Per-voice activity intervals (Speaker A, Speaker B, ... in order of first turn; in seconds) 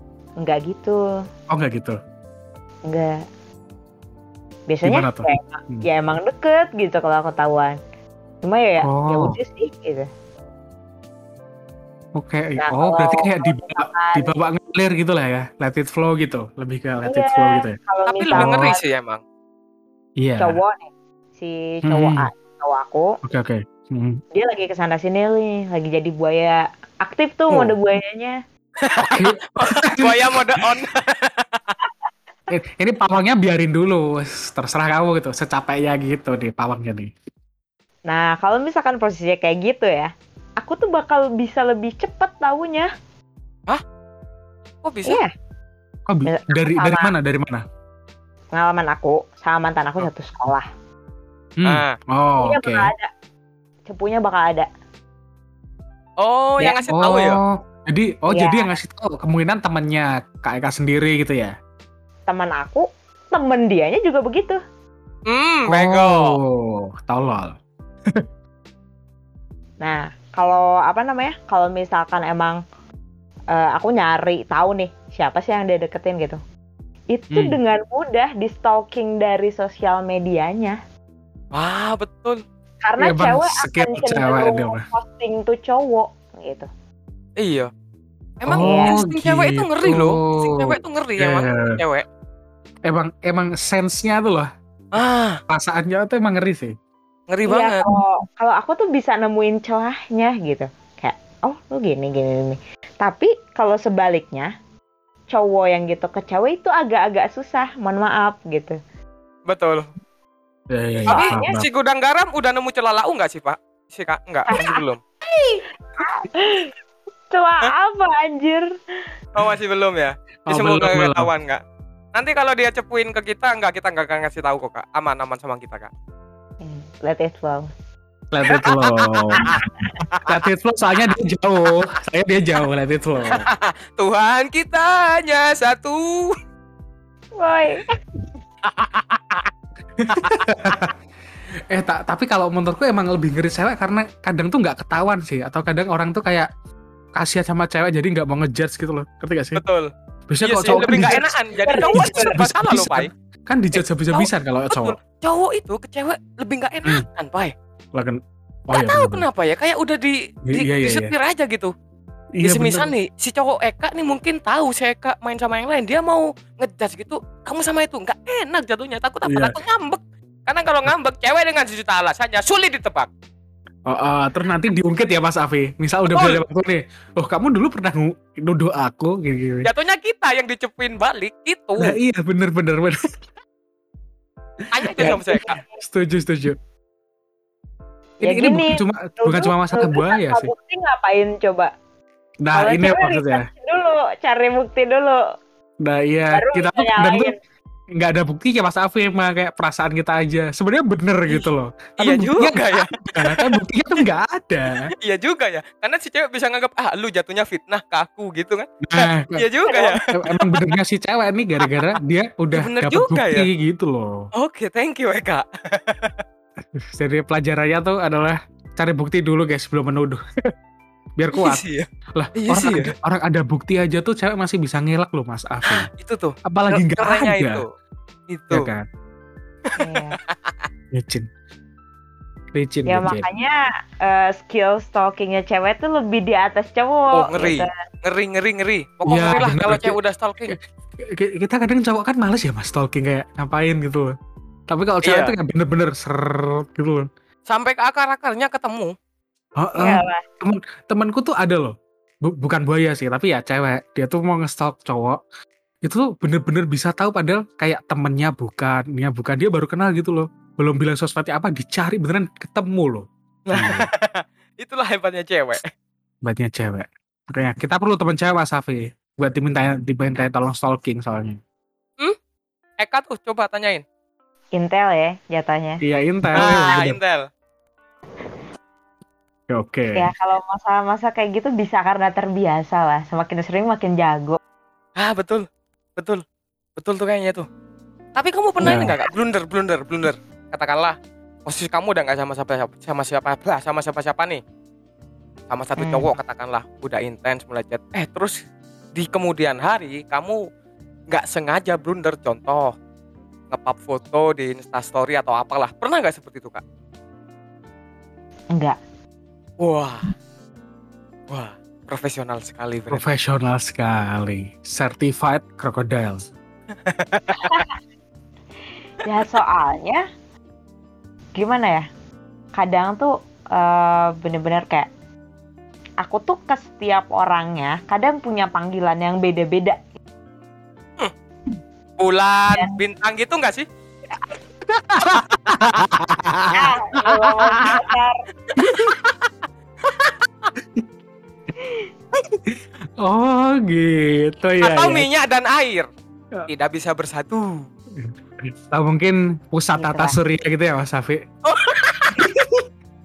Speaker A: 0.4-1.0, 2.9-3.2, 4.7-7.8, 8.4-10.1, 12.6-14.4, 17.0-18.8, 20.4-23.1, 24.3-28.4, 38.1-42.9, 46.2-47.1, 48.5-50.7, 52.4-53.1, 53.9-54.7, 58.3-58.7, 62.3-64.6, 69.8-72.6, 73.5-76.4, 77.1-80.8, 82.8-86.7, 88.6-89.0, 97.5-104.5, 105.3-108.8, 111.1-111.5, 114.5-116.7, 117.3-118.7, 126.6-127.7, 137.4-138.0, 151.7-152.3, 188.2-191.7, 192.5-195.2, 196.3-197.3, 229.8-230.2, 232.9-237.7, 249.8-250.2, 274.6-275.8, 276.4-276.6, 279.9-284.4, 295.8-296.1, 317.3-317.7, 319.0-320.0, 321.4-321.9, 322.5-324.9, 326.0-329.8, 336.5-338.2, 341.6-341.9, 349.7-350.2
Speaker B: 1.5-2.0, 4.8-5.8, 8.8-9.4, 12.2-17.8, 18.3-18.7, 20.2-20.6, 21.8-22.3, 23.2-24.2, 29.0-30.7, 32.5-37.1, 46.1-47.6, 51.6-52.9, 56.9-61.5, 65.7-67.6, 77.3-77.6, 83.0-84.8, 88.5-91.8, 92.8-94.5, 95.5-96.8, 110.7-111.7, 120.5-121.3, 128.3-129.7, 130.2-133.5, 140.0-140.9, 141.7-146.5, 147.2-149.6, 150.3-155.0, 157.9-159.2, 160.5-161.1, 162.3-162.9, 169.3-169.6, 173.9-179.7, 181.8-183.1, 184.8-186.6, 188.2-190.5, 192.4-193.5, 195.8-197.3, 197.9-204.9, 208.8-214.2, 216.7-220.2, 221.2-221.6, 222.1-225.9, 226.5-227.6, 228.5-228.9, 230.9-231.3, 232.5-233.2, 239.1-244.1, 244.7-247.1, 249.6-255.2, 255.8-263.9, 266.2-271.4, 275.8-277.0, 279.5-280.1, 288.6-288.9, 312.9-316.2, 334.7-337.8, 338.6-339.0, 342.4-345.1, 348.0-351.2, 352.1-352.6
Speaker C: 18.1-19.2, 28.8-31.7, 44.8-45.2, 51.6-51.9, 56.2-57.4, 65.3-66.4, 81.5-82.4, 87.4-87.7, 88.4-92.0, 94.9-95.4, 97.3-97.8, 109.5-109.9, 111.1-115.0, 119.3-121.6, 122.1-125.9, 128.4-130.3, 133.2-136.3, 138.6-139.5, 140.1-140.8, 149.6-149.9, 150.4-153.1, 154.1-157.5, 158.7-161.7, 162.4-173.1, 176.1-176.4, 179.6-181.9, 184.7-185.6, 201.3-203.6, 205.0-210.8, 211.6-211.9, 212.5-213.5, 214.3-216.2, 221.3-221.9, 222.4-222.9, 225.7-227.7, 228.3-228.7, 229.7-230.7, 237.1-240.6, 245.0-245.3, 247.5-248.9, 263.5-265.7, 272.8-273.8, 276.3-277.3, 285.0-286.2, 286.8-287.5, 288.1-294.4, 295.5-298.4, 298.9-300.4, 301.1-302.7, 303.5-306.6, 309.6-310.1, 311.3-313.0, 316.8-317.6, 332.0-333.6, 335.1-335.8, 338.5-339.1, 339.9-340.1, 344.6-345.9, 346.5-347.6, 351.4-352.3